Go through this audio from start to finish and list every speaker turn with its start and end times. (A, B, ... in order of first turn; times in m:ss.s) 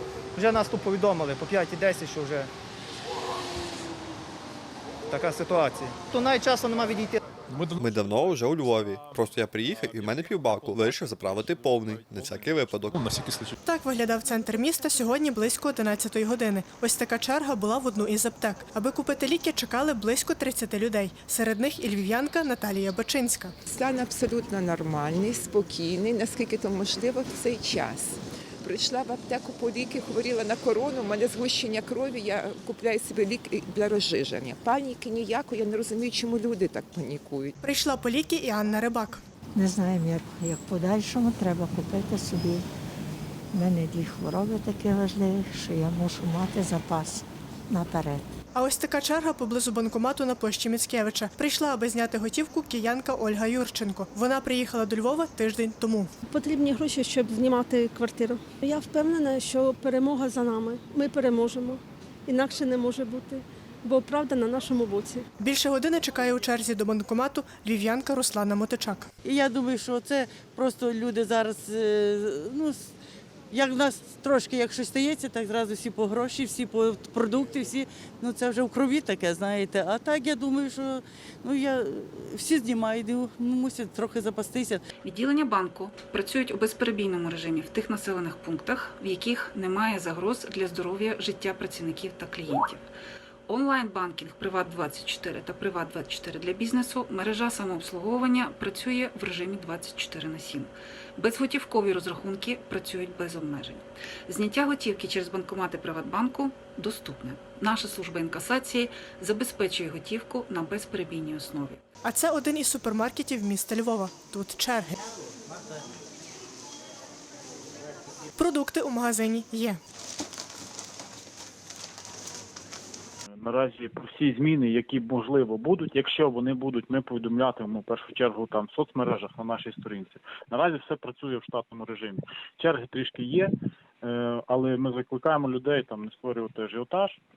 0:00.4-0:02.5 A
0:05.1-0:07.2 A
0:07.8-0:13.1 B
0:13.0-0:13.5 C
0:13.6-0:23.5 D
0:23.7-0:37.6 E
0:37.6-0:39.2 D
0:39.5-0:42.6 F
0:43.5-0:48.2 F
0:48.5-0:56.1 D
0:56.3-1:05.3 G
1:05.4-1:09.1 D
1:09.2-1:12.7 C
1:13.5-1:20.8 C
1:21.4-1:24.8 C
1:25.0-1:32.9 H
1:33.5-1:51.8 H
1:52.0-1:55.0 D
1:58.4-1:59.8 D
2:03.4-2:13.5 I
2:14.0-2:17.2 I